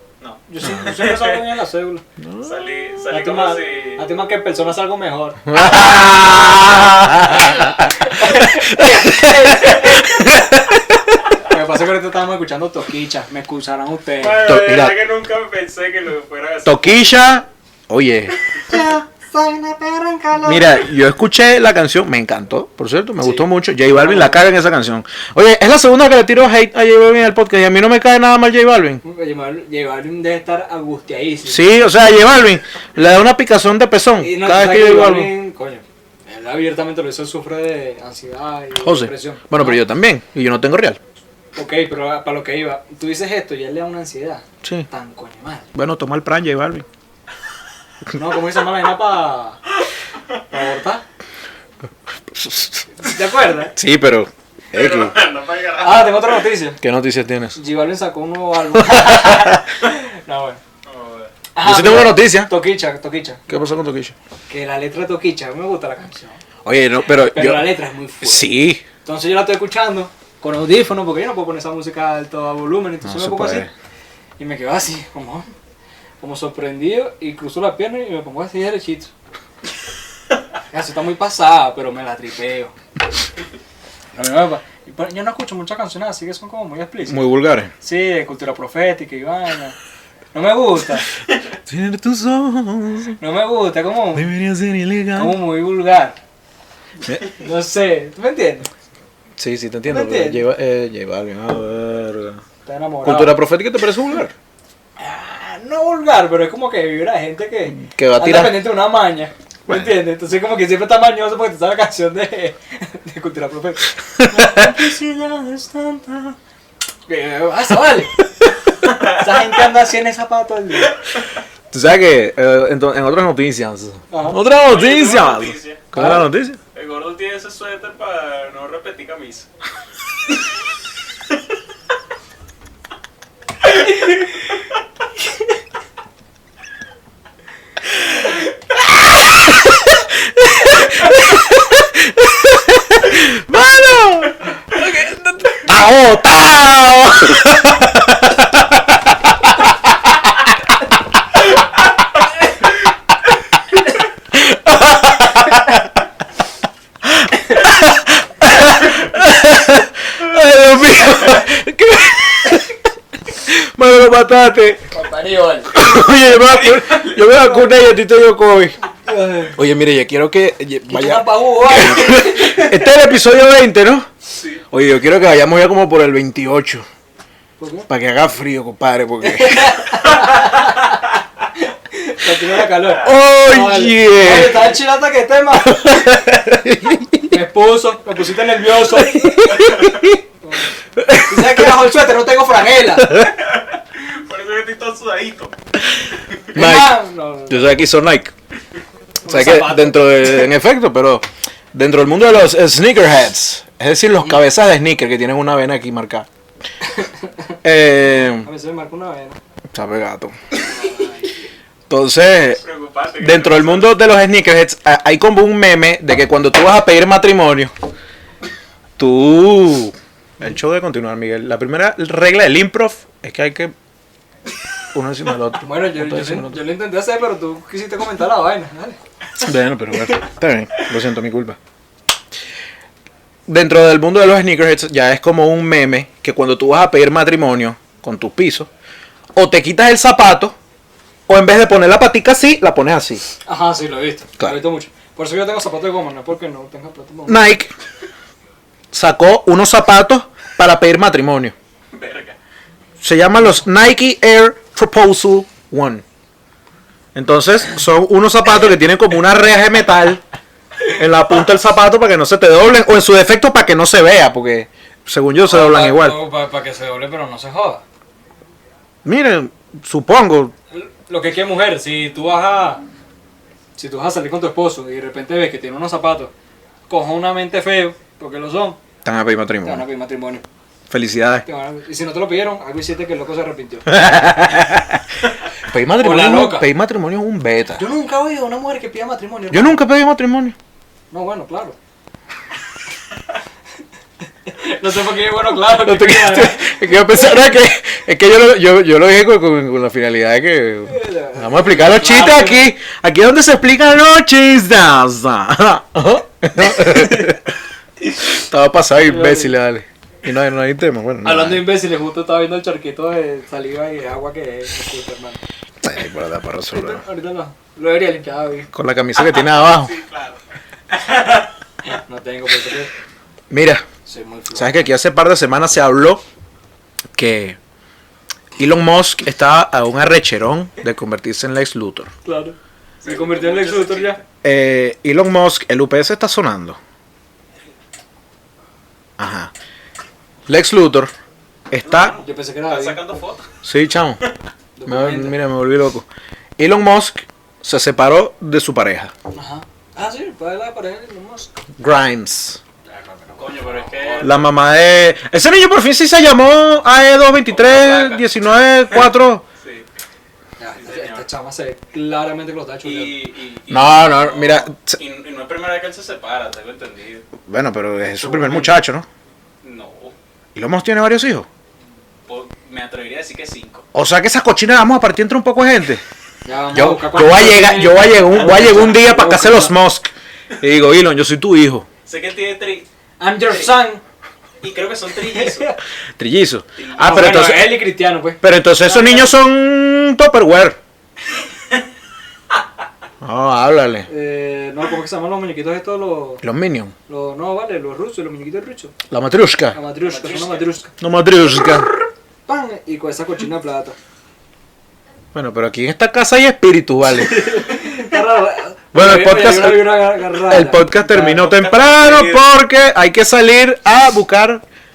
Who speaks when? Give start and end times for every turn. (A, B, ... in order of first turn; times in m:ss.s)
0:00.2-0:01.4 A
0:00.5-0:02.0 B
0:00.6-0:00.9 C
0:02.2-0:02.7 C
0:02.4-0:04.2 A
0:03.1-0:06.1 B
0:05.4-0:11.1 C
0:07.2-0:10.4 B
0:11.4-0:14.4 B
0:14.2-0:17.2 A
0:14.4-0:15.0 C
0:16.6-0:18.4 C
0:18.7-0:20.8 B
0:20.4-0:29.0 C
0:23.2-0:24.4 B
0:29.0-0:31.6 B
0:31.4-0:35.3 C
0:34.2-0:39.8 B
0:38.8-0:41.0 C
0:41.5-0:45.7 B
0:45.7-0:46.8 C
0:48.1-0:49.6 B
0:50.5-0:51.0 B
0:52.3-0:52.8 C
0:53.0-0:53.7 B
0:53.7-0:55.1 C
0:54.7-0:56.4 A
0:55.8-0:56.8 B
0:56.8-0:57.6 C
0:57.5-1:00.6 B
0:58.7-0:59.6 C
1:00.8-1:01.3 A
1:01.5-1:03.4 B
1:01.6-1:02.5 C
1:03.5-1:04.1 C
1:04.5-1:06.4 B
1:06.6-1:08.8 C
1:07.2-1:13.7 B
1:13.0-1:13.7 C
1:14.4-1:15.5 B
1:16.2-1:19.1 B
1:20.7-1:22.7 B
1:24.1-1:27.2 B
1:27.0-1:27.7 C
1:27.8-1:29.8 B
1:30.3-1:31.1 B
1:31.6-1:33.2 C
1:33.2-1:34.3 B
1:34.1-1:35.4 C
1:35.2-1:36.2 B
1:37.3-1:38.7 B
1:39.4-1:42.4 C
1:39.8-1:40.4 B
1:42.6-1:43.4 B
1:43.0-1:44.3 C
1:45.0-1:56.4 B
1:47.7-1:48.6 C
1:54.2-1:54.7 C
1:57.1-1:58.2 B
1:58.8-2:01.0 B
2:01.7-2:06.6 C
2:04.1-2:04.4 B
2:04.6-2:05.8 A
2:05.9-2:06.2 B
2:06.7-2:09.5 A
2:19.1-2:29.7 C
2:34.3-2:35.9 C
2:37.0-2:42.8 C
2:43.3-2:44.9 C
2:44.9-2:45.8 B
2:45.7-2:48.7 C
2:46.7-2:47.2 A
2:49.1-2:49.6 B
2:49.6-2:54.1 C
2:50.9-2:52.9 B
2:54.7-2:56.8 C
2:57.6-2:57.9 B
2:57.9-3:00.0 C
2:59.2-3:01.0 B
3:01.6-3:06.0 B
3:03.0-3:04.7 C
3:05.6-3:07.3 C
3:07.3-3:13.2 B
3:08.8-3:10.2 C
3:11.0-3:11.7 C
3:13.4-3:15.5 A
3:16.5-3:17.8 B
3:16.5-3:18.3 C
3:19.2-3:20.4 B
3:19.3-3:26.3 C
3:26.9-3:27.3 B
3:27.6-3:28.5 C
3:28.4-3:29.4 B
3:29.7-3:30.3 C
3:30.6-3:31.3 B
3:31.9-3:32.6 C
3:32.6-3:33.9 A
3:33.2-3:37.7 C
3:39.0-3:43.7 C
3:44.9-3:46.6 C
3:45.6-3:49.0 B
3:49.4-3:51.6 C
3:53.5-3:58.7 C
3:59.3-4:00.5 C
4:01.3-4:03.2 C
4:03.4-4:07.5 B
4:07.3-4:07.7 C
4:08.9-4:11.5 C
4:11.9-4:12.4 A
4:13.0-4:16.0 C
4:17.1-4:20.2 C
4:20.9-4:26.2 C
4:25.4-4:27.8 B
4:29.0-4:30.5 C
4:30.7-4:32.8 B
4:33.8-4:36.3 B
4:36.9-4:38.8 B
4:39.0-4:39.8 C
4:39.6-4:40.4 B
4:40.9-4:41.4 C
4:41.4-4:44.0 B
4:43.9-4:45.0 C
4:45.6-4:47.8 C
4:46.0-4:46.7 B
4:47.8-4:49.8 B
4:49.5-4:50.6 C
4:51.1-4:51.8 B
4:54.4-4:57.3 B
4:55.7-5:07.4 C
5:00.9-5:02.7 B
5:06.9-5:07.3 B
5:08.2-5:11.6 C
5:09.0-5:09.6 B
5:11.2-5:15.4 B
5:15.8-5:17.0 C
5:16.7-5:18.7 B
5:18.7-5:19.9 C
5:19.2-5:20.4 A
5:20.9-5:21.4 A
5:21.9-5:22.9 B
5:23.5-5:23.8 C
5:24.0-5:24.9 B
5:24.5-5:26.2 C
5:27.2-5:27.6 C
5:28.6-5:32.1 C
5:32.2-5:34.2 B
5:33.0-5:34.2 A
5:34.4-5:36.8 C
5:39.2-5:39.5 C
5:40.5-5:41.1 C
5:41.7-5:42.1 C
5:41.8-5:43.5 A
5:42.2-5:43.0 B
5:43.6-5:44.2 C
5:44.8-5:45.4 B
5:44.8-5:46.1 C
5:46.6-5:49.1 C
5:49.3-5:51.5 B
5:51.8-5:52.6 C
5:52.9-5:54.4 B
5:53.4-5:54.4 A
5:54.2-5:59.4 C
5:57.5-5:58.3 A
5:59.6-5:59.8 A
6:00.6-6:03.2 B
6:00.8-6:01.3 A
6:02.8-6:07.3 A
6:03.7-6:05.0 C
6:07.4-6:09.0 C
6:08.2-6:08.8 B
6:09.6-6:10.1 A
6:10.5-6:11.5 C
6:12.3-6:13.8 A
6:13.9-6:16.0 C
6:16.4-6:19.7 B
6:16.7-6:21.8 C
6:22.0-6:22.9 A
6:23.2-6:24.0 B
6:23.5-6:23.8 A
6:24.6-6:25.7 A
6:25.2-6:25.8 B
6:26.2-6:27.8 C
6:26.8-6:27.2 A
6:27.0-6:29.3 B
6:28.4-6:30.8 C
6:33.2-6:34.1 C
6:34.1-6:36.4 B
6:36.4-6:36.9 C
6:37.1-6:38.9 B
6:39.1-6:39.8 C
6:39.7-6:40.9 B
6:40.0-6:40.7 A
6:41.0-6:41.9 C
6:42.5-6:44.0 B
6:45.3-6:47.6 C
6:47.2-6:51.5 B
6:48.9-6:54.6 C
6:51.3-6:52.4 A